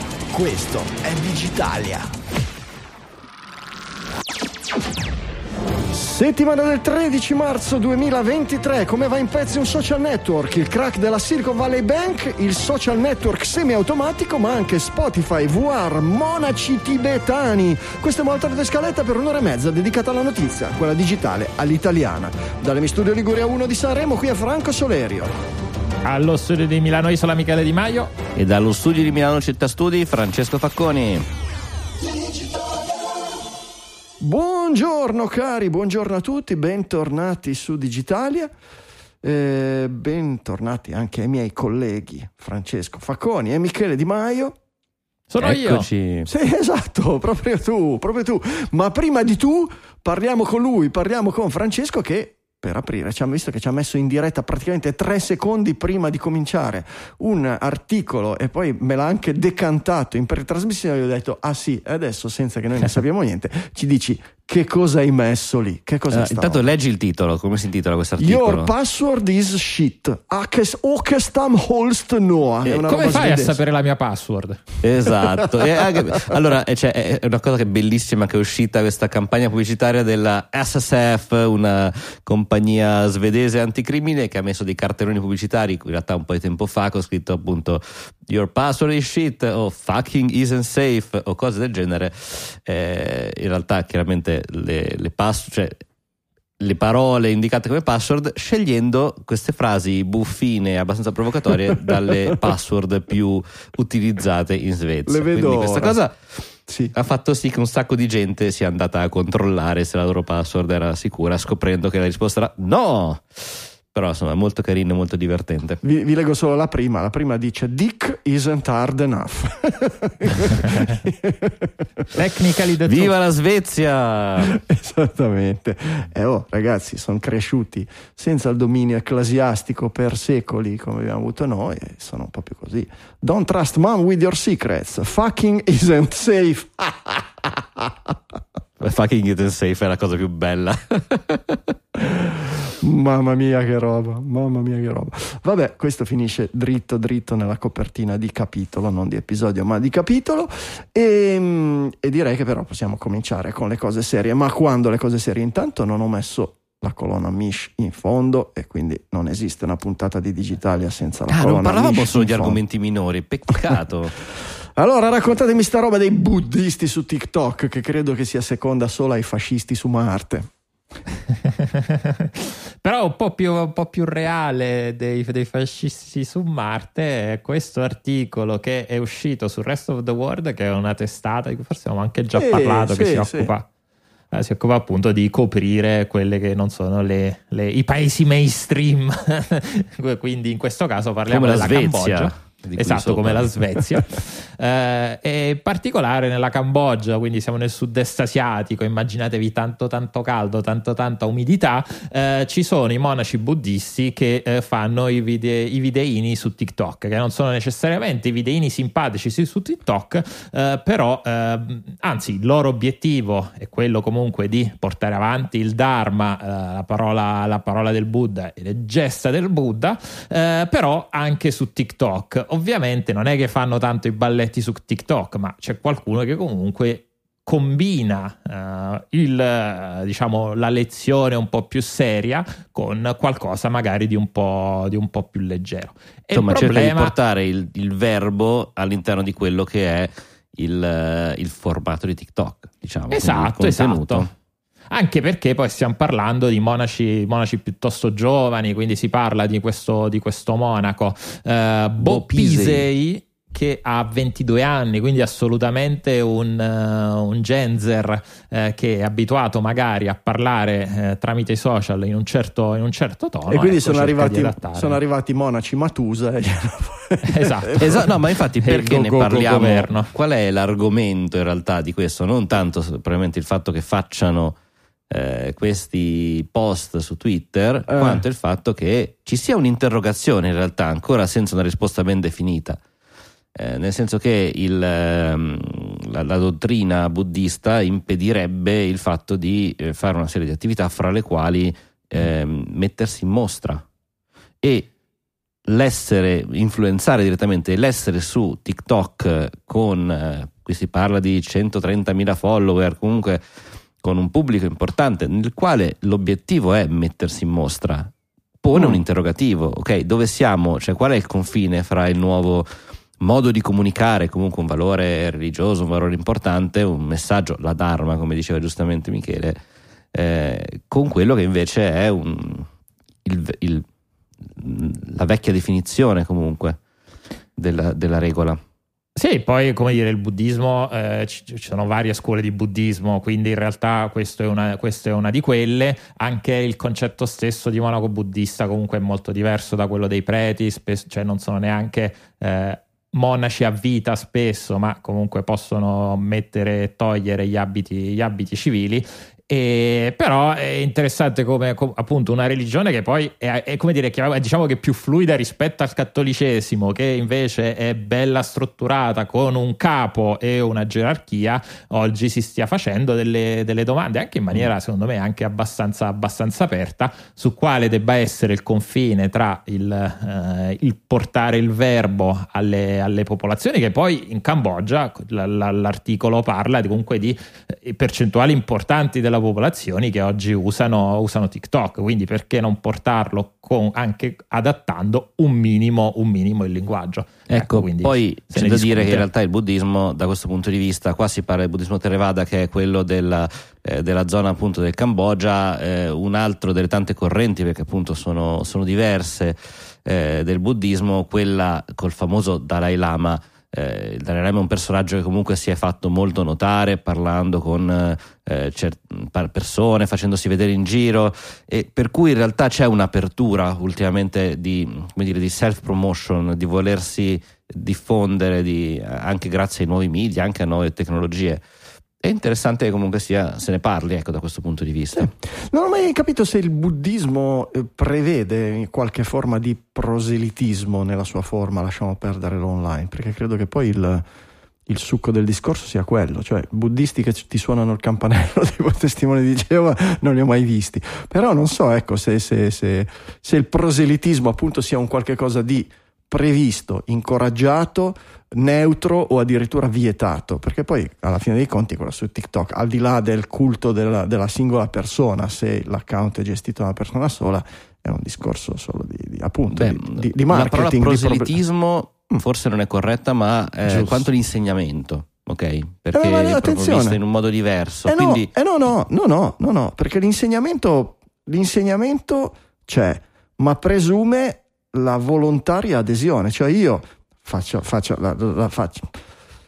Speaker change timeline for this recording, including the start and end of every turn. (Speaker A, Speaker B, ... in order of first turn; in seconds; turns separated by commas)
Speaker A: 0.3-2.1, Speaker A: 5.9-25.3, Speaker B: 26.0-28.1, Speaker C: 28.4-31.2, Speaker A: 32.1-33.0, Speaker A: 34.2-38.5, Speaker A: 39.2-44.6, Speaker B: 45.3-45.9, Speaker C: 45.4-46.3, Speaker A: 46.3-66.6, Speaker C: 66.1-68.7, Speaker A: 68.2-73.6, Speaker C: 72.6-73.2, Speaker B: 72.9-74.6, Speaker C: 74.8-95.8, Speaker A: 75.2-75.7, Speaker C: 96.6-106.1, Speaker A: 101.8-102.4, Speaker A: 105.1-106.0, Speaker A: 106.7-106.9, Speaker C: 106.9-115.8, Speaker A: 115.8-122.0, Speaker B: 122.1-123.1, Speaker C: 122.9-124.6, Speaker A: 124.4-138.4, Speaker C: 138.8-141.6, Speaker A: 141.9-162.6, Speaker C: 161.3-164.2, Speaker A: 164.8-170.5, Speaker B: 171.4-183.7, Speaker A: 182.3-183.5, Speaker B: 184.3-237.1, Speaker C: 191.3-193.8, Speaker C: 236.3-244.3, Speaker B: 243.1-244.3, Speaker B: 244.9-265.0, Speaker C: 252.0-252.9, Speaker A: 263.5-268.1, Speaker B: 267.2-270.1, Speaker C: 267.8-274.6, Speaker C: 275.1-282.8, Speaker A: 277.9-278.2, Speaker C: 283.6-293.8, Speaker C: 294.6-294.9, Speaker C: 295.7-303.4, Speaker C: 304.0-319.6, Speaker A: 308.8-309.0, Speaker C: 320.1-322.7, Speaker C: 323.2-323.9, Speaker C: 324.5-326.8, Speaker C: 327.6-328.6, Speaker B: 329.1-389.3, Speaker C: 387.5-421.6, Speaker C: 422.2-425.3, Speaker A: 425.1-434.2, Speaker A: 434.9-461.6, Speaker C: 459.8-468.5, Speaker B: 463.9-464.2, Speaker A: 466.1-467.2, Speaker A: 468.1-479.1